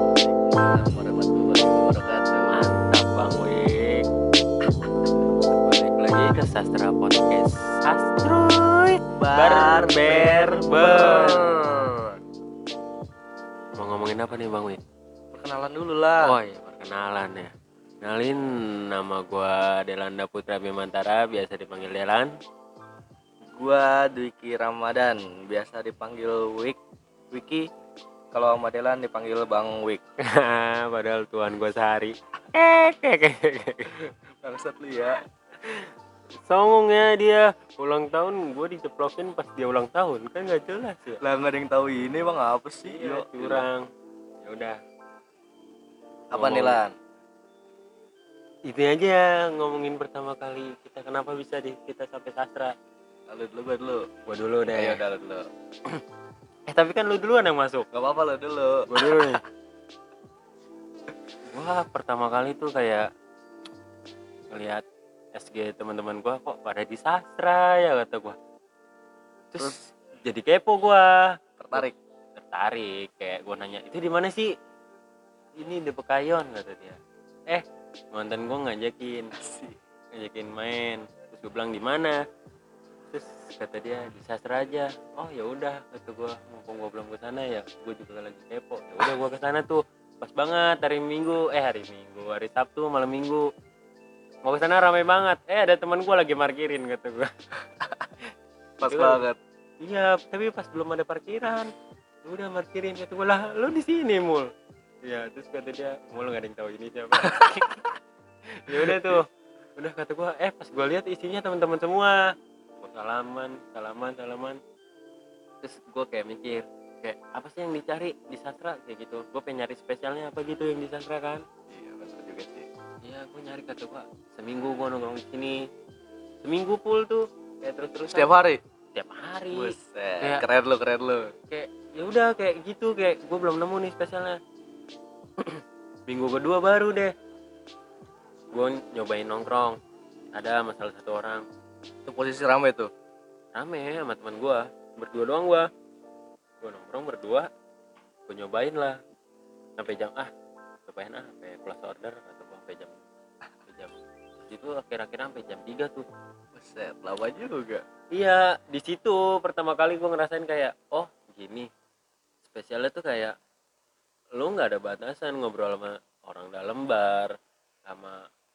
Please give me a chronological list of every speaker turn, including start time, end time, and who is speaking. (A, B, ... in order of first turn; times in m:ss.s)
0:00.3-0:02.6 A
0:02.5-0:04.0 B
0:05.5-0:11.5 B
0:09.2-0:12.2 A
0:13.8-0:14.8 B
0:15.3-0:16.3 A
0:16.2-0:22.3 B
0:23.6-0:26.8 A
0:27.3-0:27.7 A
0:28.3-0:30.0 A
0:30.2-0:34.0 B
0:34.4-0:35.2 A
0:35.6-0:35.9 B
0:36.5-0:41.2 B
0:41.2-0:43.7 A
0:42.9-0:43.9 B
0:44.4-0:44.8 B
0:46.3-0:47.0 A
0:46.3-0:46.8 B
0:48.6-0:52.7 B
0:53.3-0:54.1 A
0:54.3-0:55.0 B
0:54.7-0:55.5 A
0:56.7-0:57.9 B
0:57.9-0:59.3 A
0:58.9-0:59.4 B
1:01.5-1:03.1 B
1:04.5-1:04.8 B
1:05.4-1:08.4 B
1:09.5-1:14.5 B
1:09.6-1:09.9 A
1:11.6-1:12.0 A
1:15.6-1:19.4 B
1:19.4-1:19.8 A
1:20.1-1:22.2 B
1:23.1-1:33.5 B
1:34.4-1:37.3 B
1:38.8-1:39.4 A
1:38.8-1:39.2 B
1:39.8-1:41.7 B
1:42.2-1:44.5 B
1:45.0-1:47.8 B
1:48.5-1:49.3 B
1:48.7-1:49.2 A
1:49.8-1:54.6 B
1:55.6-2:01.4 B
2:01.7-2:02.7 A
2:03.0-2:05.7 B
2:06.4-2:08.3 B
2:08.1-2:08.6 A
2:09.0-2:10.4 B
2:09.5-2:11.3 A
2:11.5-2:14.4 B
2:15.4-2:17.1 B
2:18.5-2:19.8 B
2:20.3-2:21.4 B
2:22.1-2:22.9 A
2:23.5-2:25.7 B
2:26.6-2:27.5 B
2:28.3-2:29.0 B
2:29.8-2:30.3 B
2:30.9-2:33.0 B
2:33.7-2:36.1 B
2:36.6-2:37.8 A
2:38.1-2:41.7 B
2:42.5-2:43.4 B
2:44.4-2:47.4 B
2:47.9-2:48.3 B